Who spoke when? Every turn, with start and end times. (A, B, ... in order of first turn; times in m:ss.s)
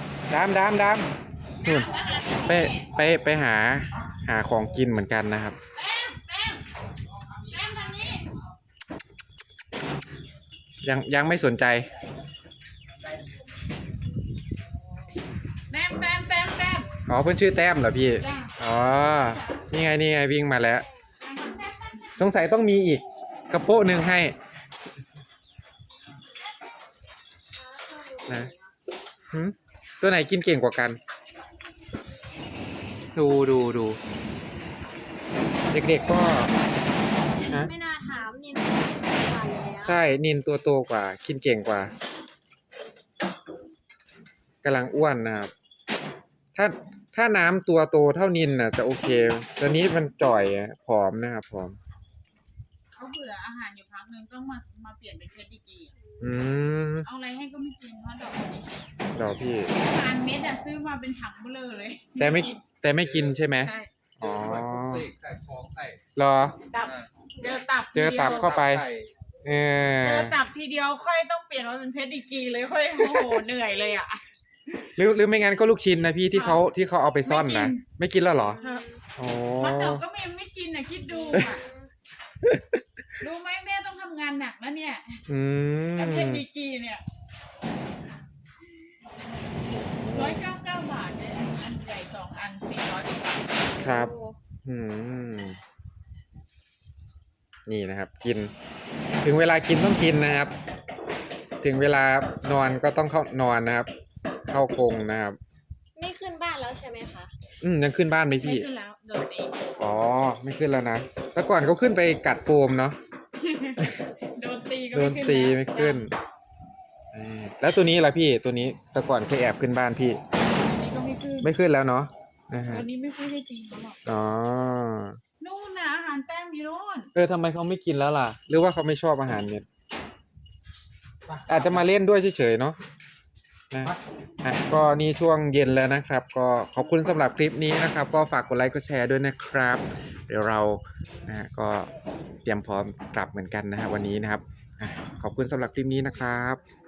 0:00.3-0:01.1 A
0:01.6-0:02.9 B
0:01.6-0:01.9 A
0:02.4-0:05.6 A
0:05.7-0:06.6 B
0:07.3-0:07.9 C
0:07.5-0:08.2 B
0:10.8-0:11.9 A
0:15.7-0:16.9 B
0:17.0-0:20.8 A
0:18.2-0:18.6 B
0:21.2-0:22.3 B
0:22.2-0:24.4 A
0:27.5-0:28.7 D
0:29.3-0:31.0 A
0:33.1-0:34.0 A
0:35.7-0:36.5 A
0:37.4-0:40.0 D
0:37.4-0:37.7 A
0:39.8-0:41.9 A
0:44.6-0:45.5 A
0:46.5-0:51.8 A
0:52.9-0:55.9 B
0:56.2-0:57.1 A
0:57.0-0:58.8 B
0:59.2-0:59.7 A
0:59.7-1:02.6 B
1:02.2-1:05.1 A
1:03.0-1:03.5 C
1:03.6-1:03.9 B
1:04.2-1:06.0 C
1:06.2-1:06.6 A
1:06.7-1:08.6 B
1:06.8-1:07.1 C
1:07.9-1:08.8 A
1:08.2-1:09.1 C
1:09.4-1:10.3 A
1:10.0-1:14.2 B
1:13.0-1:13.3 A
1:14.9-1:18.6 A
1:16.3-1:16.6 B
1:17.2-1:17.8 B
1:18.4-1:19.0 D
1:18.6-1:18.9 B
1:19.2-1:20.0 A
1:19.6-1:21.6 B
1:21.1-1:21.9 D
1:22.4-1:22.8 A
1:23.2-1:25.2 B
1:25.3-1:26.4 A
1:26.0-1:27.0 B
1:29.8-1:30.4 A
1:30.1-1:33.8 B
1:33.8-1:35.6 A
1:33.8-1:34.4 D
1:37.7-1:38.5 A
1:39.2-1:40.5 A
1:41.6-1:45.4 A
1:46.0-1:47.3 D
1:47.6-1:48.7 A
1:48.4-1:49.7 B
1:49.8-1:53.0 A
1:53.4-1:56.1 B
1:54.9-1:56.1 A
1:57.1-2:00.2 A
2:00.5-2:01.5 B
2:01.4-2:02.8 A
2:02.7-2:04.0 B
2:04.0-2:05.2 A
2:05.4-2:07.1 B
2:07.1-2:09.6 A
2:11.2-2:12.0 C
2:11.5-2:12.8 A
2:13.7-2:21.9 A
2:22.4-2:26.6 A